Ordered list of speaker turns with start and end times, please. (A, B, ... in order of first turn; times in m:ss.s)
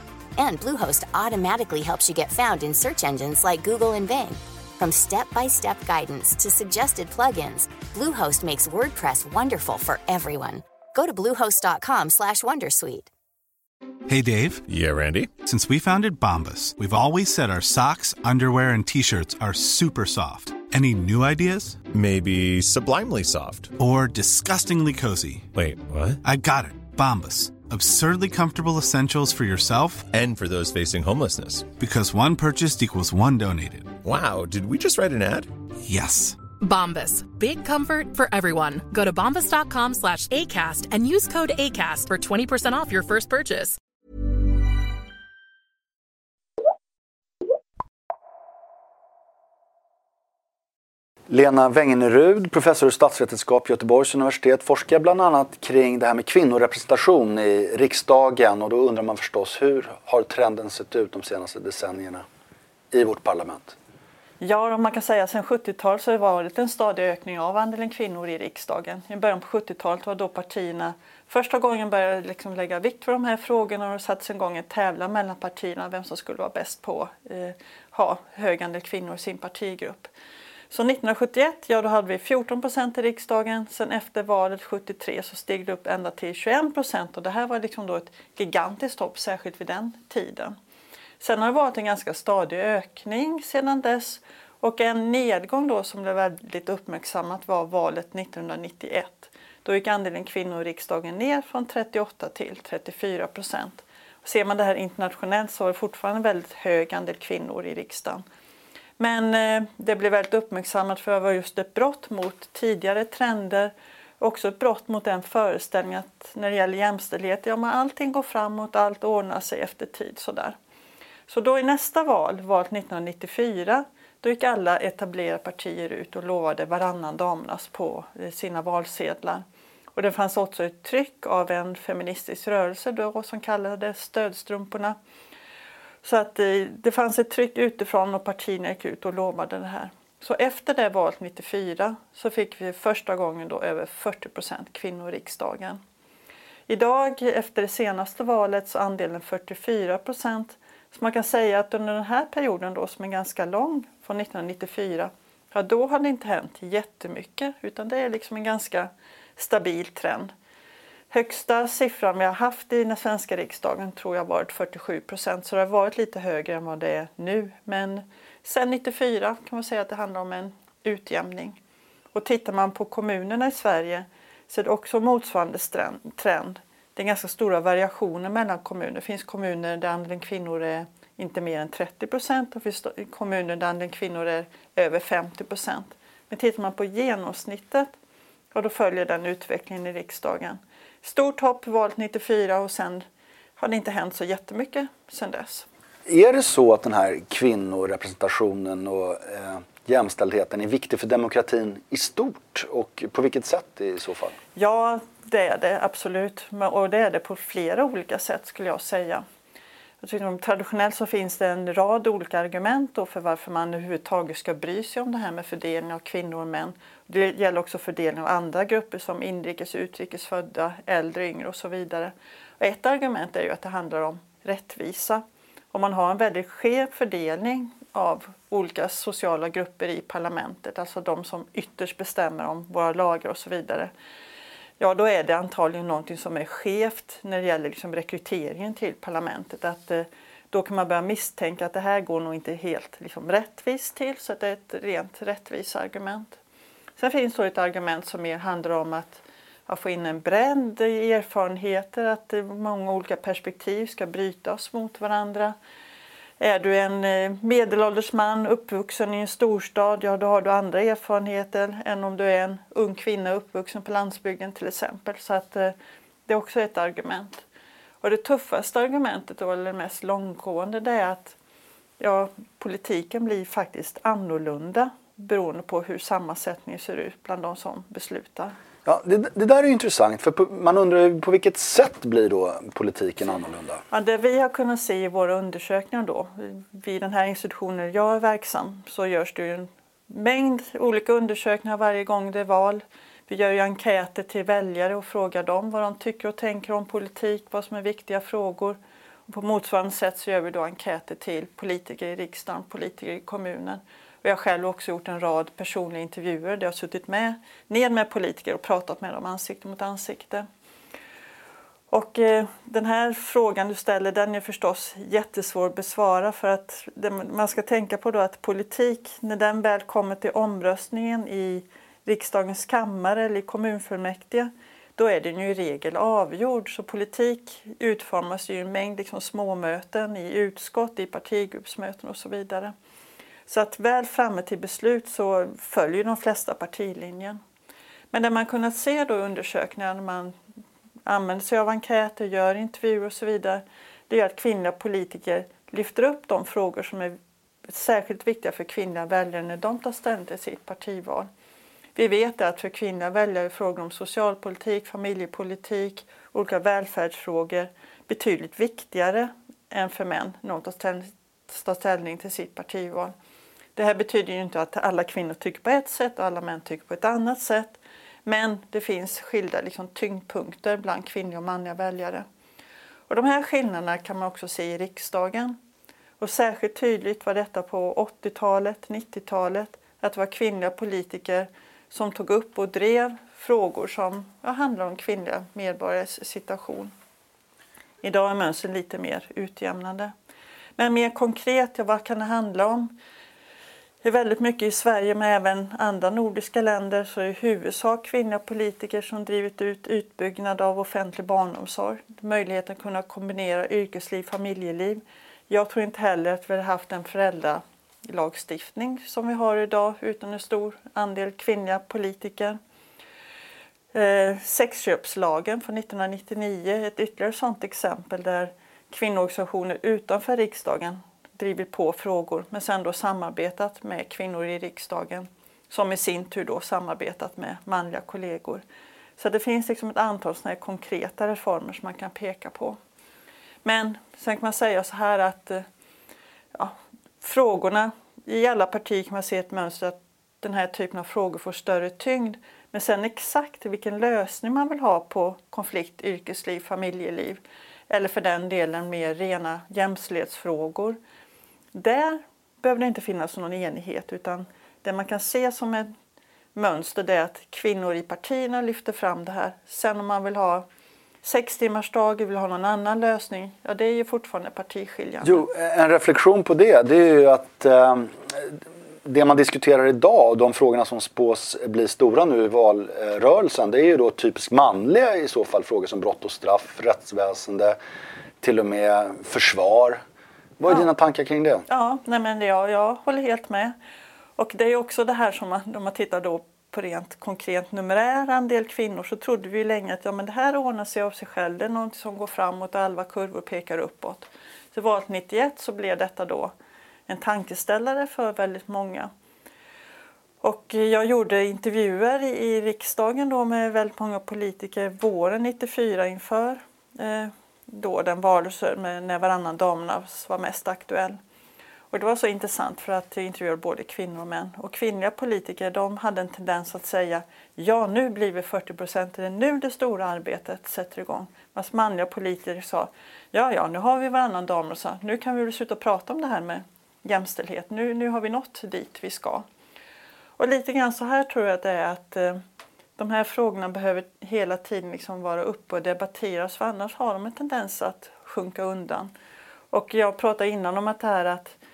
0:00.4-0:13.1 A
0:14.1-0:14.6 B
0:14.7-0:15.4 C
0:15.4-0:21.8 B
0:21.9-0:23.7 C
0:23.8-0:25.5 B
0:25.5-0:26.2 C
0:26.2-0:30.1 B
0:30.1-0:31.7 C
0:31.8-0:33.9 B
0:34.0-0:35.5 C
0:35.8-0:36.4 B
0:36.6-0:43.8 D
0:51.3-1:02.2 E
1:02.9-1:03.8 E
1:04.4-1:20.1 F
1:20.7-1:30.6 F
1:31.2-1:48.2 F
1:49.0-2:00.6 F
2:01.3-2:15.0 F
2:16.0-2:25.8 F
2:26.7-2:40.3 F
2:41.1-2:51.6 F
2:52.1-3:07.9 F
3:08.5-3:13.0 F
3:13.6-3:15.7 F
3:16.0-3:24.3 E
3:24.6-3:29.2 F
3:30.0-3:53.9 F
3:54.8-4:06.4 F
4:07.0-4:15.6 F
4:16.4-4:25.7 F
4:26.3-4:27.4 F
4:28.0-4:31.4 F
4:32.0-4:38.5 F
4:38.8-4:43.8 E
4:43.9-4:58.8 F
4:59.3-5:10.5 F
5:11.9-5:32.7 F
5:33.5-5:37.4 F
5:38.1-5:40.3 F
5:41.0-5:47.1 F
5:47.7-5:51.3 F
5:52.0-6:03.1 F
6:03.8-6:12.2 F
6:13.1-6:15.6 F
6:16.2-6:26.9 F
6:28.0-6:30.1 F
6:30.8-6:32.9 F
6:34.0-6:52.6 F
6:53.9-7:08.6 F
7:09.2-7:12.8 F
7:13.6-7:15.6 F
7:16.5-7:31.0 F
7:31.7-7:35.9 F
7:36.5-7:40.6 F
7:41.2-7:45.4 F
7:45.2-7:57.8 E
7:58.4-8:00.0 E
8:00.6-8:01.6 E
8:01.7-8:03.7 F
8:04.4-8:16.5 F
8:17.1-8:19.1 F
8:20.4-8:31.2 F
8:31.9-8:49.4 F
8:50.4-8:52.4 F
8:53.0-8:59.1 F
8:59.7-9:01.6 F